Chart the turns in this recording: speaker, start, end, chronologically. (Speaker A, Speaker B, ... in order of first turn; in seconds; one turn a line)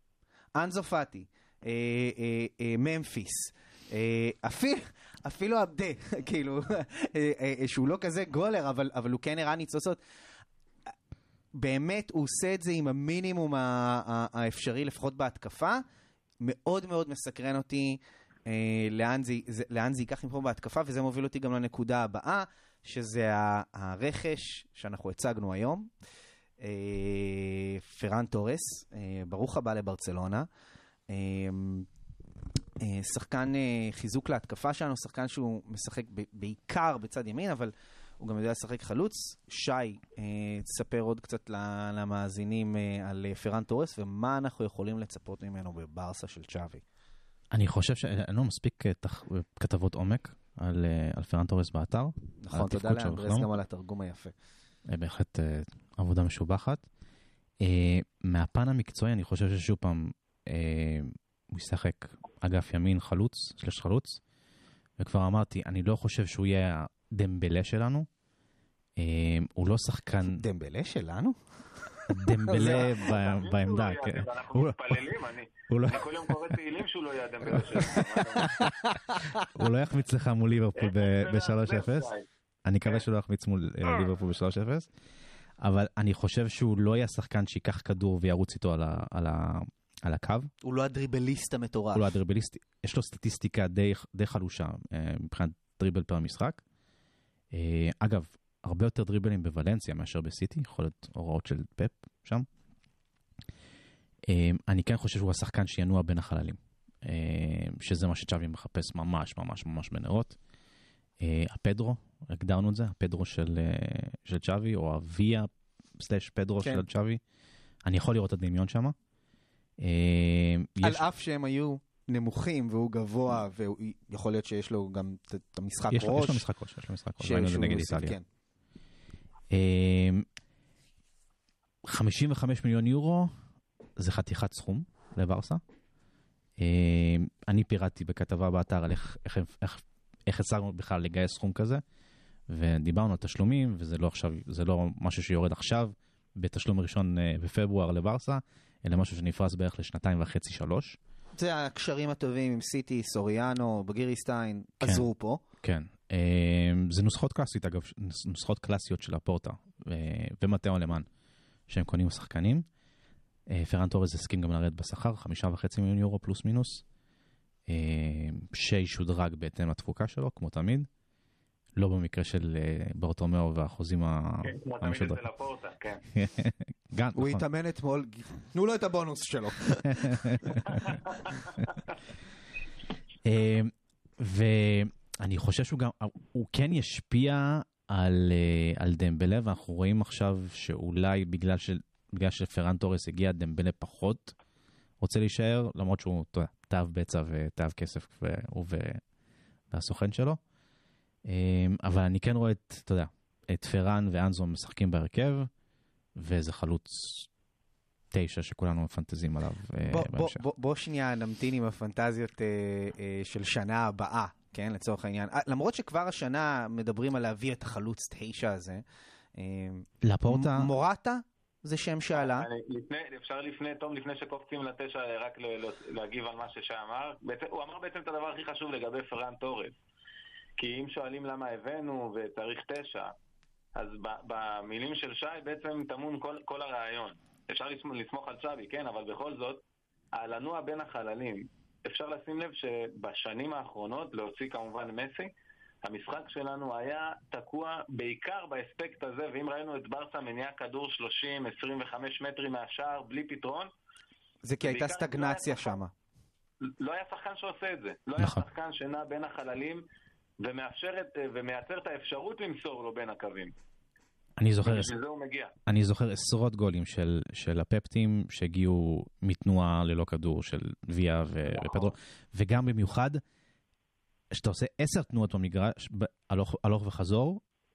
Speaker A: 0.6-10.0
Speaker A: 11.5-15.8
Speaker A: 16.4-25.9
Speaker A: 26.6-30.5
Speaker A: 31.1-31.9
Speaker A: 32.8-46.8
Speaker B: 47.5-53.5
Speaker A: 52.4-54.3
Speaker B: 54.9-56.9
Speaker B: 57.6-64.2
Speaker B: 65.0-68.1
Speaker B: 69.0-70.4
Speaker A: 70.2-73.0
Speaker B: 72.1-75.0
Speaker C: 72.6-78.6
Speaker B: 75.7-76.3
Speaker B: 78.0-78.7
Speaker A: 78.7-79.2
Speaker B: 79.5-82.1
Speaker C: 80.8-82.3
Speaker B: 82.7-84.9
Speaker B: 85.6-90.5
Speaker A: 90.6-92.2
Speaker B: 91.9-96.6
Speaker B: 97.5-102.5
Speaker B: 104.3-110.4
Speaker B: 111.2-117.2
Speaker B: 117.8-119.0
Speaker B: 119.8-121.0
Speaker A: 120.8-126.4
Speaker B: 125.9-128.2
Speaker A: 127.2-128.2
Speaker B: 129.5-130.3
Speaker B: 131.8-133.3
Speaker B: 134.0-135.6
Speaker B: 136.6-141.8
Speaker B: 142.5-151.0
Speaker A: 151.4-155.4
Speaker B: 155.6-161.1
Speaker B: 161.7-162.7
Speaker B: 163.5-166.8
Speaker B: 167.7-170.9
Speaker B: 171.8-175.2
Speaker C: 174.4-176.0
Speaker B: 176.1-177.4
Speaker A: 177.2-180.9
Speaker B: 179.9-180.8
Speaker C: 180.8-181.1
Speaker B: 183.2-194.3
Speaker B: 195.0-199.0
Speaker B: 199.7-200.4
Speaker B: 201.3-205.5
Speaker B: 206.2-207.3
Speaker B: 208.1-210.4
Speaker A: 209.8-218.8
Speaker A: 219.3-222.5
Speaker B: 220.0-220.7
Speaker C: 222.1-229.8
Speaker C: 230.6-233.1
Speaker C: 233.8-239.6
Speaker C: 240.2-245.3
Speaker C: 245.8-253.7
Speaker A: 254.4-255.9
Speaker C: 254.6-255.8
Speaker C: 256.6-259.8
Speaker C: 260.4-263.5
Speaker B: 264.4-264.9
Speaker C: 264.6-265.5
Speaker B: 265.7-273.2
Speaker C: 271.5-271.9
Speaker B: 274.3-277.4